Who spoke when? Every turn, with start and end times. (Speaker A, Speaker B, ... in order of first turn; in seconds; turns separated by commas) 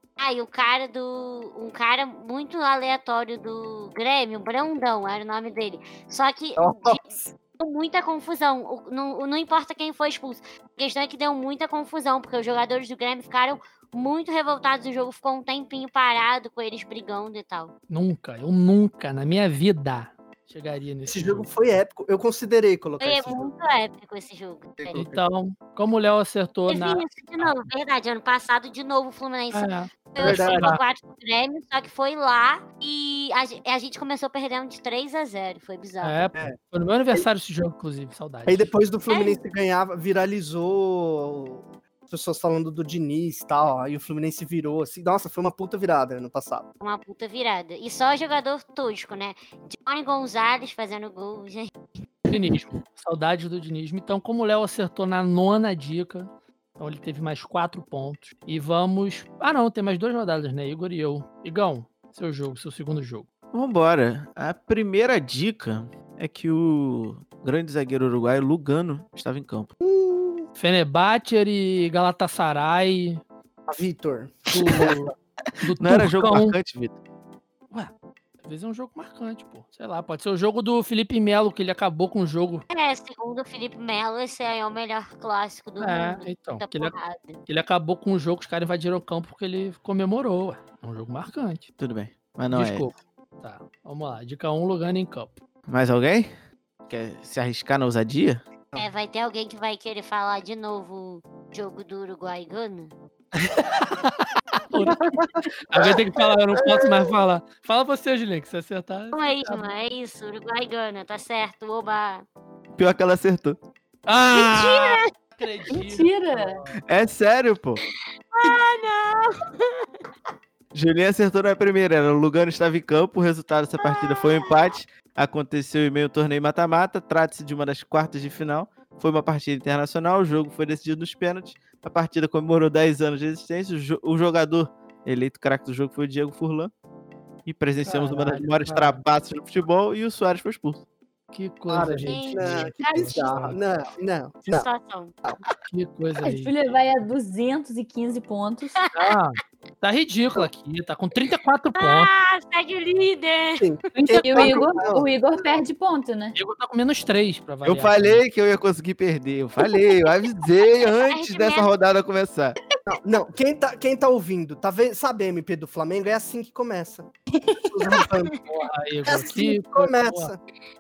Speaker A: 0.2-7.0, Speaker B: 6.6-7.3, Speaker A: 7.6-17.7, Speaker C: 17.9-21.5, Speaker B: 21.1-23.5, Speaker A: 23.0-25.0, Speaker B: 24.8-25.2, Speaker C: 24.9-27.5, Speaker A: 26.7-36.2, Speaker C: 29.5-30.8, Speaker B: 30.2-30.8, Speaker C: 36.0-38.7, Speaker B: 38.5-46.7, Speaker A: 39.1-39.4, Speaker A: 46.8-51.7, Speaker C: 52.3-63.3, Speaker D: 63.5-69.7, Speaker B: 69.8-70.5, Speaker C: 70.6-73.2, Speaker B: 73.7-75.1, Speaker C: 74.5-76.6, Speaker D: 75.7-77.0, Speaker C: 78.4-82.7, Speaker A: 82.7-87.4, Speaker C: 85.8-86.9, Speaker C: 87.5-91.7, Speaker D: 91.8-92.9, Speaker C: 92.5-95.4, Speaker D: 95.7-96.3, Speaker D: 96.9-98.4, Speaker A: 98.8-102.9, Speaker C: 103.3-105.0, Speaker C: 105.7-109.7, Speaker A: 109.1-112.2, Speaker D: 112.7-113.6, Speaker C: 114.1-116.8, Speaker A: 114.3-115.1, Speaker E: 115.7-116.6, Speaker D: 116.9-117.8, Speaker A: 118.3-119.8, Speaker D: 120.7-136.7, Speaker A: 123.8-124.7, Speaker D: 137.5-140.8, Speaker C: 137.8-139.0, Speaker C: 141.3-143.6, Speaker B: 141.7-144.7, Speaker A: 142.1-143.4, Speaker A: 144.5-145.2, Speaker C: 145.7-146.5, Speaker E: 146.2-148.8, Speaker C: 148.9-152.1, Speaker A: 151.8-153.7, Speaker B: 153.6-155.1, Speaker E: 153.9-156.4, Speaker C: 156.3-158.2, Speaker D: 157.6-162.6, Speaker A: 160.9-161.7, Speaker B: 162.9-167.1, Speaker B: 167.6-168.3, Speaker C: 168.5-170.3, Speaker B: 169.1-170.4